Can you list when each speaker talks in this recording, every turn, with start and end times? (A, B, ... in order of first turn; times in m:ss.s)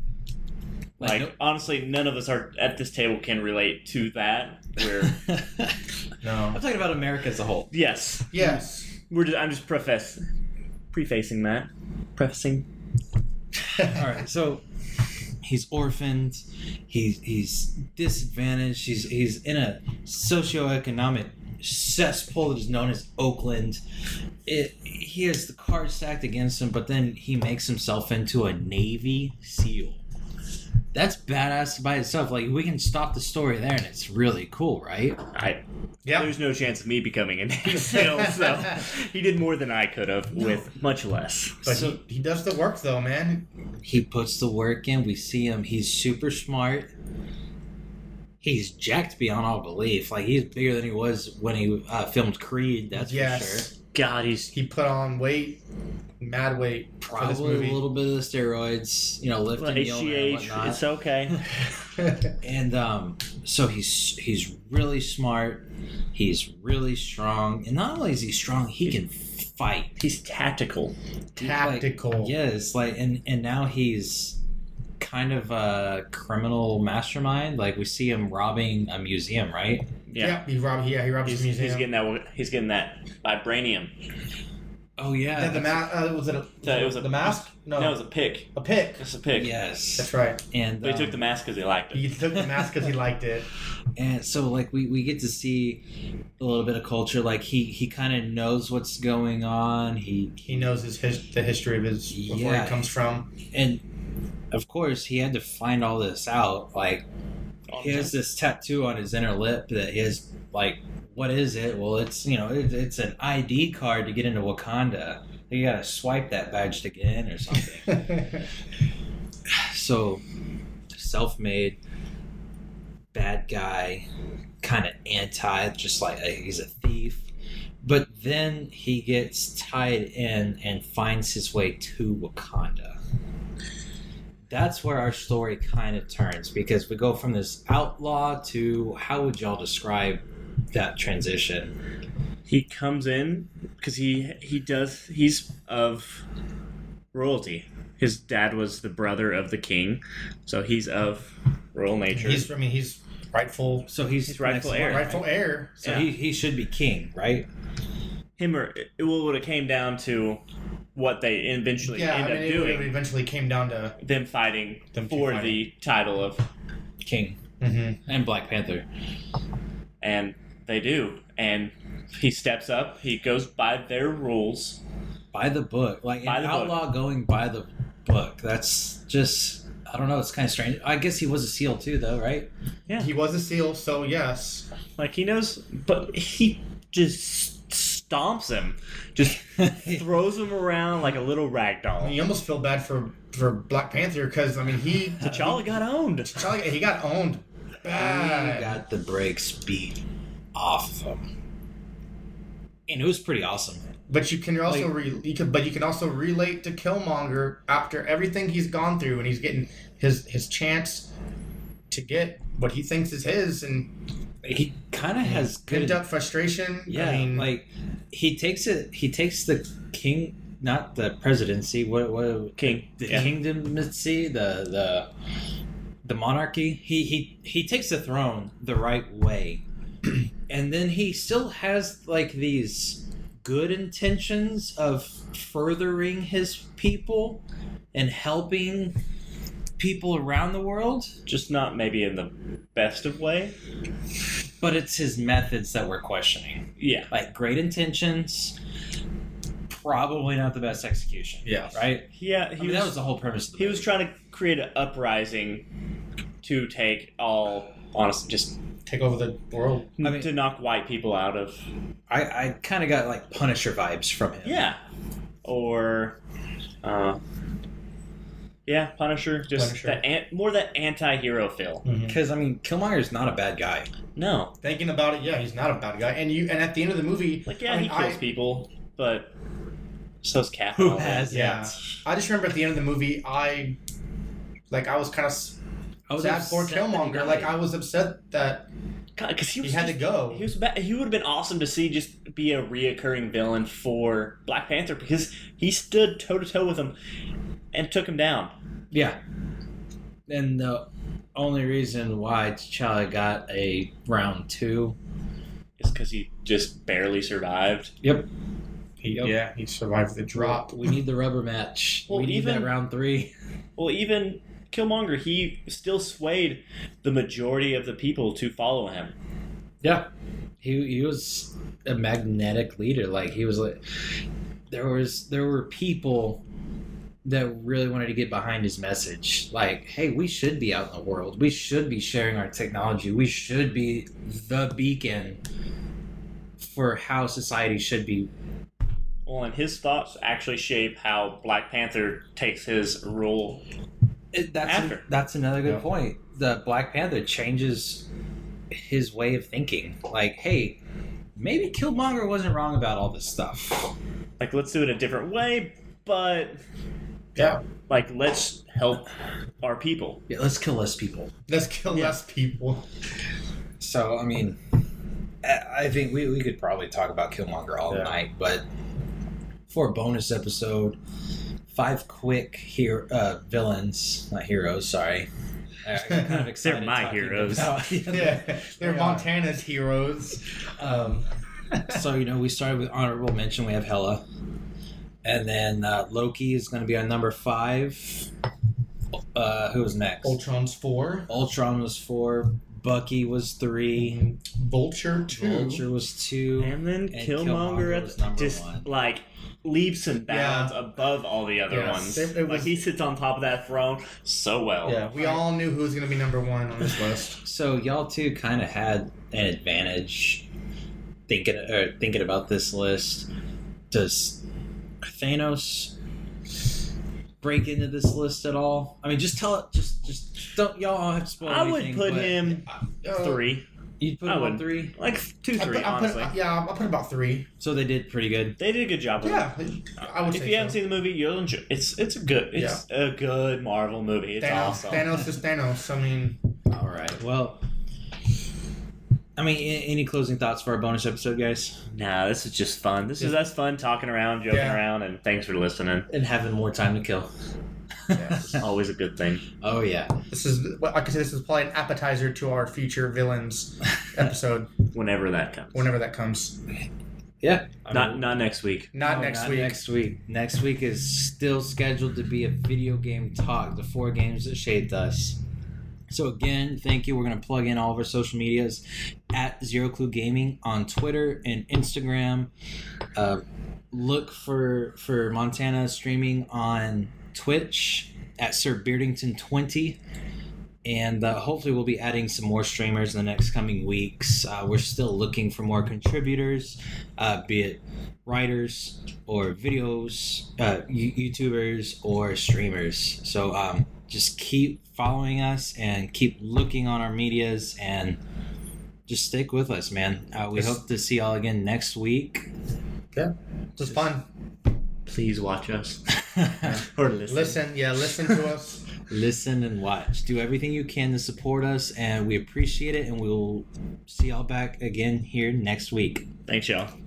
0:01.0-0:01.4 A
0:01.0-0:05.3 B
0:05.1-0:05.8 A
0:06.2-0:06.6 C
0:06.5-0:07.7 A
0:07.7-0:08.6 B
0:08.3-0:08.9 C
0:09.1-0:10.2 B
0:10.9-0:12.7 B
0:13.9-0:14.6 A
0:15.4-0:23.8 A
0:24.5-0:30.0 A
0:30.9-0:35.2 A
0:35.3-0:35.6 B
0:36.0-0:36.3 C
0:36.1-0:41.6 B
0:37.8-0:38.6 C
0:40.4-0:40.6 C
0:41.6-0:43.5 C
0:41.7-0:42.0 A
0:43.8-0:46.9 A
0:48.4-0:53.7 A
0:53.0-0:53.7 C
0:53.9-0:54.6 B
0:54.5-0:55.6 C
0:56.2-0:57.8 C
0:57.0-1:00.8 A
0:59.6-1:01.4 B
1:02.4-1:09.9 A
1:10.0-1:10.9 B
1:11.4-1:12.3 C
1:11.5-1:14.4 A
1:15.0-1:19.9 A
1:20.1-1:20.5 B
1:20.2-1:21.9 C
1:21.3-1:23.9 B
1:25.0-1:26.0 A
1:25.4-1:28.0 C
1:26.6-1:29.5 B
1:28.6-1:29.0 C
1:29.3-1:31.2 A
1:30.0-1:30.4 C
1:30.8-1:32.0 B
1:31.9-1:33.5 C
1:32.3-1:32.9 A
1:34.0-1:35.8 A
1:36.4-1:40.7 A
1:40.5-1:43.3 C
1:42.1-1:42.9 A
1:43.5-1:43.8 A
1:44.5-1:47.0 A
1:47.7-1:48.1 B
1:47.8-1:58.3 A
1:59.5-2:00.2 A
2:01.0-2:01.8 A
2:03.1-2:04.1 A
2:04.6-2:07.3 A
2:07.8-2:13.0 A
2:14.5-2:21.7 A
2:22.5-2:26.2 B
2:27.1-2:32.5 B
2:32.1-2:33.9 C
2:33.9-2:35.3 A
2:34.3-2:35.1 B
2:34.8-2:36.1 C
2:35.8-2:37.5 A
2:38.4-2:40.4 B
2:41.0-2:42.9 B
2:41.8-2:44.0 C
2:44.0-2:46.5 B
2:44.9-2:45.6 C
2:47.0-2:47.4 A
2:47.6-2:48.0 C
2:48.1-2:48.9 A
2:50.0-2:54.8 B
2:55.3-3:02.5 A
2:56.2-2:56.8 B
3:03.0-3:04.7 C
3:05.0-3:12.2 B
3:09.6-3:10.0 A
3:12.0-3:15.6 C
3:15.2-3:16.4 B
3:16.3-3:18.8 C
3:17.8-3:20.0 A
3:20.6-3:21.3 A
3:22.9-3:23.8 A
3:24.1-3:31.1 C
3:31.9-3:33.9 C
3:34.4-3:36.1 A
3:35.2-3:37.5 C
3:36.9-3:45.1 A
3:42.6-3:43.3 B
3:46.0-3:49.6 A
3:50.5-3:57.4 A
3:57.9-3:59.0 A
3:59.8-4:01.1 A
4:01.3-4:03.6 B
4:04.6-4:08.6 A
4:06.8-4:07.1 B
4:09.7-4:14.0 A
4:11.4-4:11.8 C
4:12.2-4:13.0 B
4:13.6-4:15.6 B
4:16.4-4:18.6 B
4:18.9-4:19.9 C
4:20.0-4:21.6 B
4:20.0-4:20.3 A
4:22.1-4:24.7 A
4:24.4-4:24.8 B
4:25.4-4:26.2 B
4:26.8-4:27.2 B
4:28.7-4:31.9 B
4:29.6-4:30.0 C
4:31.8-4:32.2 C
4:32.1-4:33.9 A
4:34.2-4:34.5 B
4:34.6-4:38.2 C
4:37.5-4:39.3 B
4:40.2-4:41.5 B
4:40.8-4:42.0 A
4:41.3-4:43.8 C
4:44.7-4:45.6 C
4:46.1-4:47.6 A
4:46.2-4:48.7 C
4:49.2-4:57.0 B
4:49.6-4:50.5 C
4:57.7-4:58.5 B
4:58.9-4:59.2 A
5:00.3-5:05.0 A
5:05.8-5:07.9 B
5:09.0-5:11.0 C
5:10.3-5:13.3 A
5:12.1-5:12.7 B
5:13.8-5:19.1 B
5:19.8-5:20.1 A
5:20.6-5:23.8 A
5:24.7-5:26.4 A
5:27.2-5:35.4 A
5:36.6-5:38.3 A
5:39.3-5:43.6 B
5:44.3-5:48.1 A
5:44.6-5:45.0 B
5:48.7-5:50.8 A
5:51.4-5:53.9 A
5:54.4-5:56.6 B
5:57.4-5:57.6 C
5:57.9-6:00.2 B
6:00.3-6:01.3 A
6:01.5-6:02.8 C
6:01.9-6:02.2 B
6:03.8-6:04.6 A
6:05.4-6:08.6 A
6:07.9-6:08.2 C
6:09.7-6:11.0 A
6:11.7-6:15.3 A
6:15.8-6:19.3 A
6:16.2-6:17.7 B
6:18.1-6:21.3 C
6:21.8-6:24.2 A
6:25.2-6:28.3 A
6:29.4-6:30.4 A
6:30.2-6:31.3 C
6:31.3-6:34.2 A
6:34.0-6:35.9 C
6:35.3-6:38.9 A
6:36.6-6:45.4 B
6:40.3-6:40.8 C
6:41.7-6:42.8 C
6:44.8-6:47.4 C
6:47.4-6:50.5 A
6:51.3-6:53.3 A
6:53.9-6:54.4 A
6:55.0-6:56.0 A
6:57.4-7:02.4 A
7:01.4-7:03.6 B
7:02.4-7:03.4 C
7:04.0-7:05.0 A
7:04.2-7:06.3 B
7:05.6-7:07.5 C
7:07.6-7:08.6 A
7:08.6-7:15.1 B
7:09.2-7:10.8 C
7:12.5-7:12.8 C
7:14.4-7:16.4 C
7:16.7-7:17.6 A
7:19.4-7:21.8 A
7:21.9-7:26.1 B
7:24.5-7:24.8 C
7:26.1-7:27.3 A
7:28.1-7:28.6 A
7:28.1-7:28.6 C
7:28.5-7:29.4 B
7:29.6-7:30.1 A
7:30.3-7:34.7 C
7:34.9-7:35.9 B
7:35.7-7:36.6 C
7:37.4-7:38.3 A
7:37.9-7:38.9 B
7:38.9-7:39.8 C
7:39.0-7:45.4 A
7:46.1-7:52.5 A
7:53.2-8:00.0 A
8:00.8-8:18.2 A
8:19.1-8:22.5 A
8:23.1-8:24.2 C
8:25.1-8:26.1 B
8:26.3-8:26.8 A
8:26.6-8:28.8 C
8:26.7-8:27.6 B
8:29.1-8:36.3 A
8:36.5-8:36.9 B